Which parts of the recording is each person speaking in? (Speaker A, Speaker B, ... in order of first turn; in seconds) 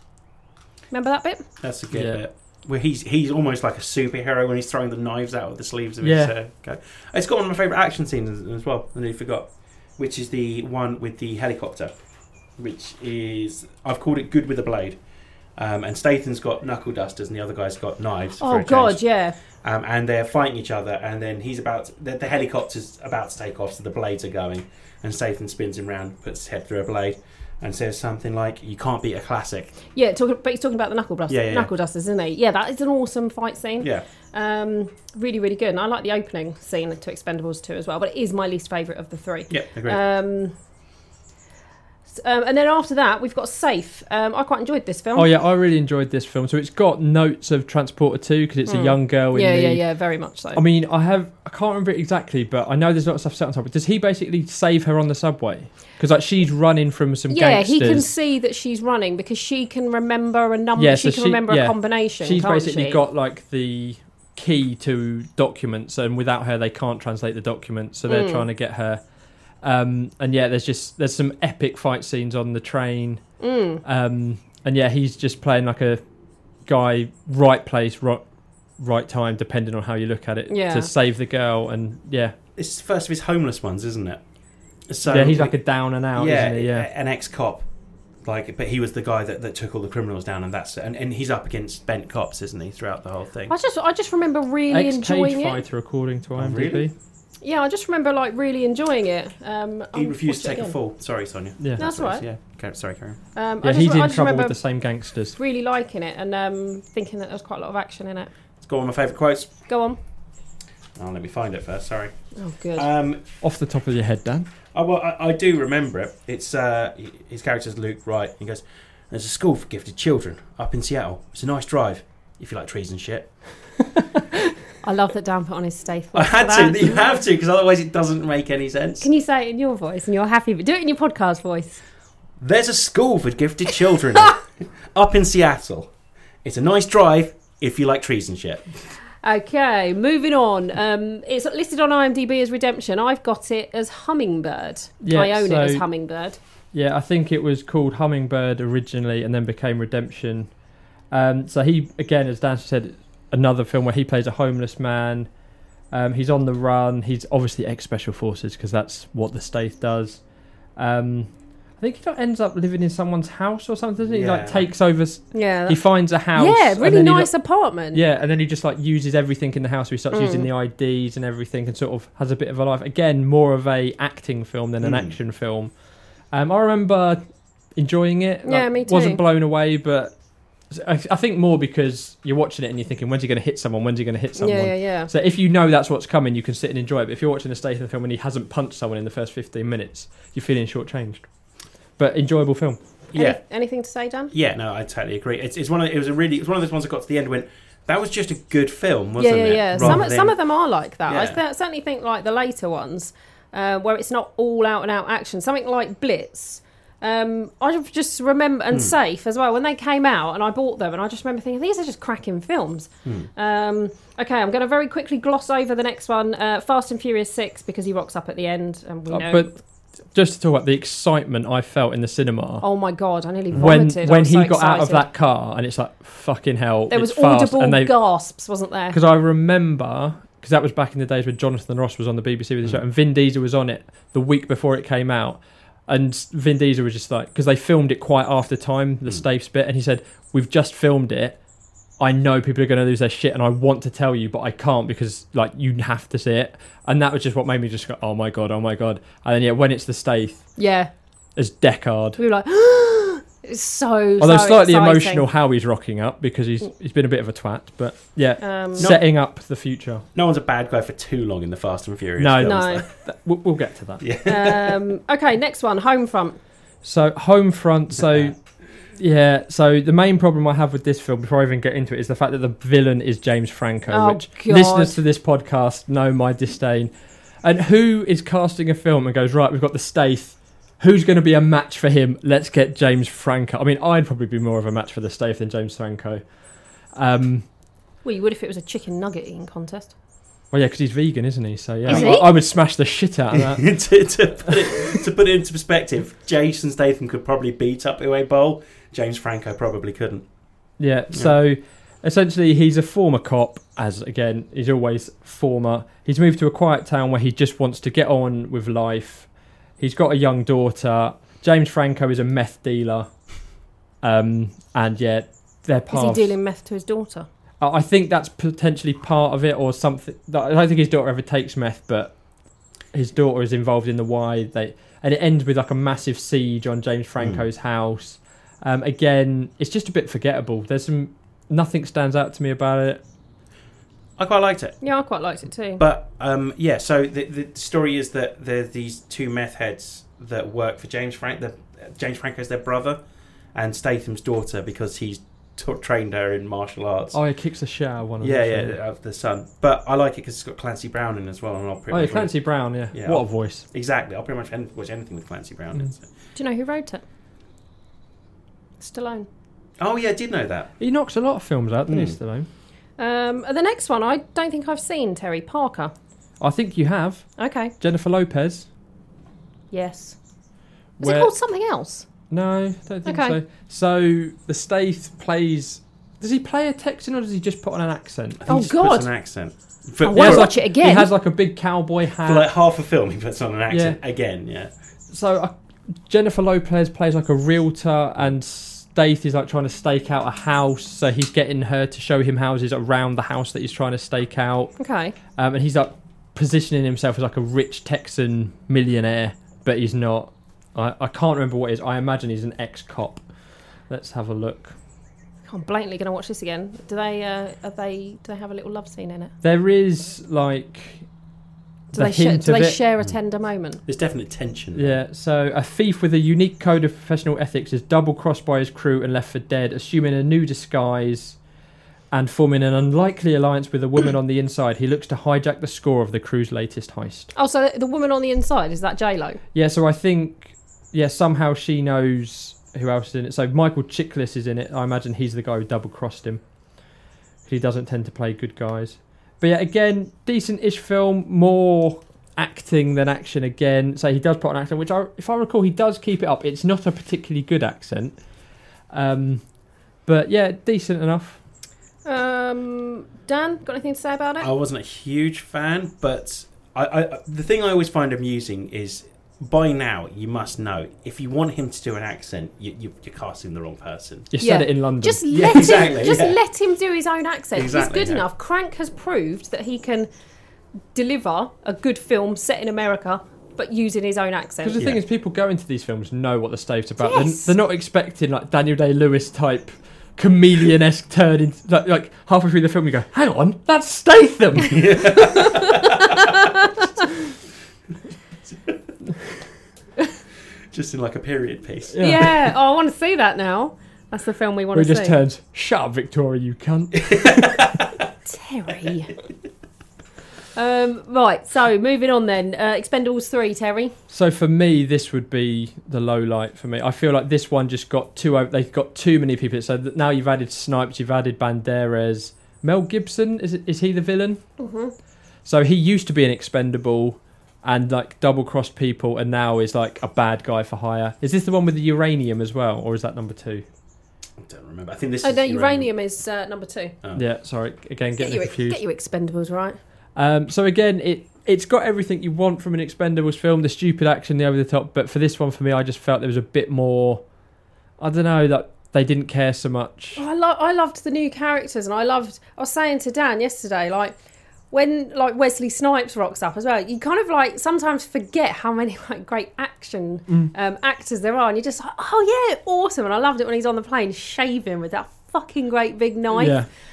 Speaker A: 0.9-1.5, 18.4-19.4, 29.9-40.5, 42.1-45.3, 48.7-50.6, 57.3-63.0, 68.1-68.5, 73.4-73.8, 80.5-80.9, 93.5-95.6, 97.4-100.8, 101.8-102.2, 103.3-104.6, 105.4-108.3, 109.7-110.0, 112.4-112.9, 124.8-127.2, 129.0-131.8, 139.2-146.4, 165.3-165.8, 166.3-168.0, 170.1-170.5, 178.4-179.2, 184.4-185.1, 193.2-194.3, 199.2-219.6, 222.6-225.1, 226.9-229.0, 250.6-250.9, 252.2-255.3, 258.4-258.9, 262.4-262.8, 264.2-266.4, 273.9-275.0, 288.0-289.9, 291.9-292.3, 315.9-317.3, 334.8-335.8, 356.4-357.0, 358.8-359.3, 363.0-365.9, 367.4-367.7, 369.7-370.2, 371.0-372.1, 373.1-373.4, 378.5-379.1, 380.0-381.1, 394.8-395.2, 405.5-409.3, 411.9-413.8, 427.4-429.4, 452.1-454.5, 464.4-470.1, 470.9-474.9, 477.0-477.5, 485.4-486.7, 492.0-495.2, 498.3-499.1, 500.6-503.9, 514.6-514.9, 525.2-527.0, 528.2-529.8, 540.2-544.1, 544.7-556.6
Speaker B: 1.6-11.9, 12.6-15.0, 15.6-19.0, 19.6-29.8, 31.3-31.7, 39.5-40.0, 82.6-84.2, 84.9-85.6, 86.1-87.7, 88.2-93.5, 96.4-96.9, 100.0-103.2, 108.6-109.5, 111.0-112.1, 112.8-113.2, 114.7-123.3, 126.1-129.1, 132.4-135.9, 136.4-138.7, 164.0-164.7, 174.8-175.1, 193.1-193.4, 194.3-200.4, 201.1-201.4, 258.8-259.0, 260.1-262.9, 264.0-264.8, 268.0-268.3, 291.9-292.2, 293.3-300.2, 334.2-334.8, 335.8-343.0, 343.6-347.2, 348.2-352.4, 352.9-356.1, 359.8-360.7, 361.9-362.2, 378.4-380.5, 382.2-384.7, 413.9-415.0, 454.4-464.3, 465.3-466.4, 467.6-468.2, 484.7-486.4, 490.7-492.3, 497.0-497.9, 524.4-525.9
Speaker C: 1.9-2.2, 6.0-6.3, 45.1-49.8, 50.5-58.1, 60.8-69.0, 69.6-73.2, 73.8-76.0, 76.7-78.2, 78.8-82.3, 85.0-86.9, 94.7-96.9, 103.6-105.4, 113.4-114.5, 145.0-145.8, 146.7-150.5, 151.1-155.3, 155.9-160.2, 160.8-167.3, 167.9-175.7, 176.3-177.2, 177.8-180.2, 180.7-191.3, 192.0-192.8, 199.8-200.1, 219.1-219.5, 220.1-222.6, 223.5-227.9, 228.9-241.4, 242.0-250.5, 251.4-252.2, 254.2-260.1, 262.2-264.0, 266.8-268.4, 268.9-276.9, 277.4-286.2, 286.9-287.4, 290.5-293.8, 300.8-309.3, 309.8-313.1, 314.0-316.3, 317.6-322.1, 322.9-333.0, 347.1-348.8, 351.9-353.7, 360.8-362.5, 366.4-368.7, 371.0-371.3, 372.3-378.4, 380.1-382.5, 383.7-384.0, 385.1-385.5, 386.1-394.8, 395.4-403.3, 403.9-404.8, 409.4-411.1, 411.9-412.8, 414.8-421.4, 422.1-427.3, 429.5-436.4, 437.4-448.2, 448.9-449.4, 450.1-451.4, 464.3-465.2, 474.6-485.2, 491.9-492.3, 494.7-497.6, 504.1-514.4, 515.5-523.7, 527.1-528.8, 530.2-537.2, 538.0-540.2, 556.3-556.7